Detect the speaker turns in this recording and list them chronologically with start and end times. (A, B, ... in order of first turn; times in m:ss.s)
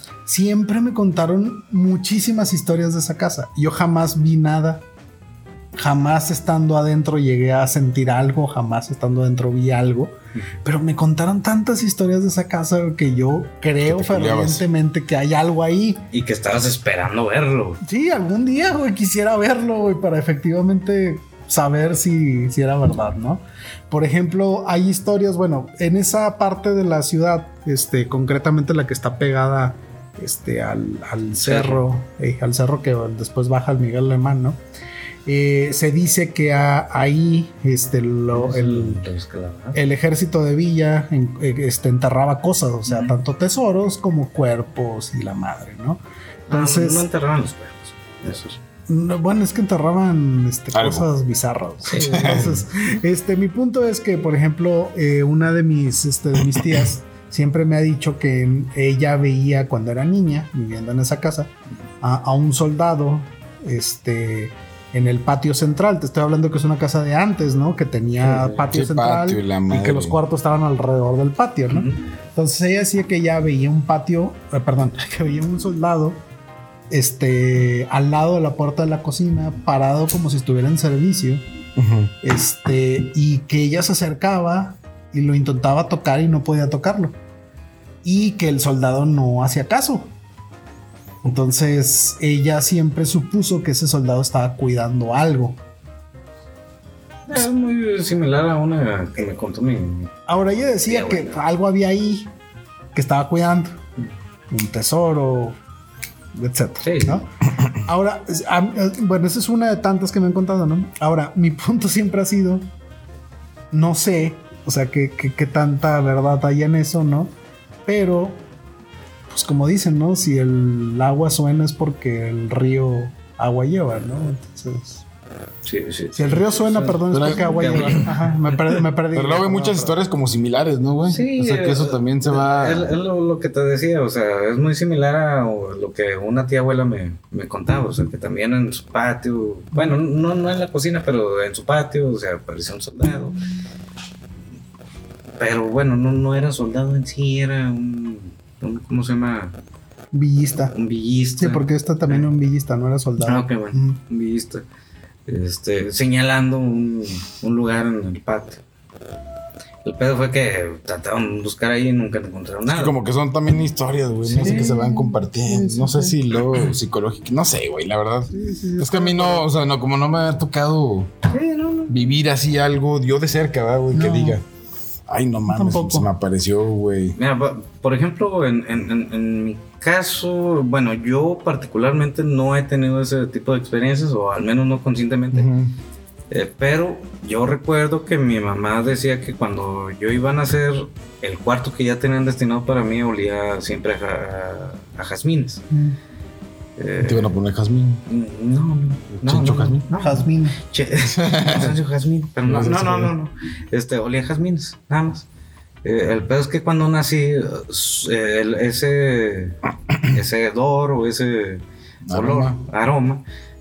0:00.3-0:04.8 A
0:05.8-0:16.1 A
0:13.8-0:14.6 B
0:16.1-0:17.8 C
0:17.8-0:34.6 A
0:31.4-0:31.8 C
0:35.2-0:39.0 A
0:38.3-0:39.8 C
0:39.7-0:47.1 A
0:46.5-0:48.6 C
0:48.9-1:01.5 A
0:50.7-0:51.1 B
0:51.9-0:52.4 C
0:51.9-0:52.6 B
1:02.0-1:16.2 A
1:08.2-1:10.2 B
1:11.7-1:12.0 C
1:16.9-1:21.4 A
1:21.8-1:22.1 B
1:22.2-1:27.1 A
1:28.0-1:30.1 A
1:31.2-1:35.6 A
1:37.3-1:41.4 C
1:40.3-1:42.3 A
1:42.9-1:43.8 A
1:44.5-1:45.6 A
1:46.3-1:52.7 A
1:46.8-1:47.2 C
1:53.7-1:57.3 A
1:57.8-1:58.4 A
1:59.3-2:05.0 A
2:05.6-2:08.2 C
2:06.1-2:10.0 A
2:07.1-2:08.1 B
2:09.1-2:13.0 B
2:11.1-2:23.4 C
2:25.4-2:29.6 C
2:30.1-2:30.7 A
2:30.7-2:32.3 C
2:31.4-2:34.0 A
2:33.2-2:34.6 C
2:35.3-2:38.6 C
2:39.8-2:42.9 C
2:42.7-2:51.1 B
2:44.2-2:44.7 C
2:44.3-2:46.2 A
2:48.3-2:49.5 A
2:51.3-2:52.1 C
2:51.9-2:54.4 B
2:53.9-2:54.4 A
2:55.1-2:57.2 B
2:55.5-2:56.1 A
2:57.2-3:05.5 C
3:05.3-3:05.7 B
3:06.3-3:15.6 C
3:15.7-3:16.0 A
3:16.8-3:17.3 C
3:17.0-3:18.0 B
3:18.1-3:25.2 C
3:19.1-3:19.8 B
3:19.9-3:20.6 A
3:21.1-3:21.8 B
3:22.4-3:23.1 B
3:25.8-3:33.2 C
3:32.1-3:32.6 B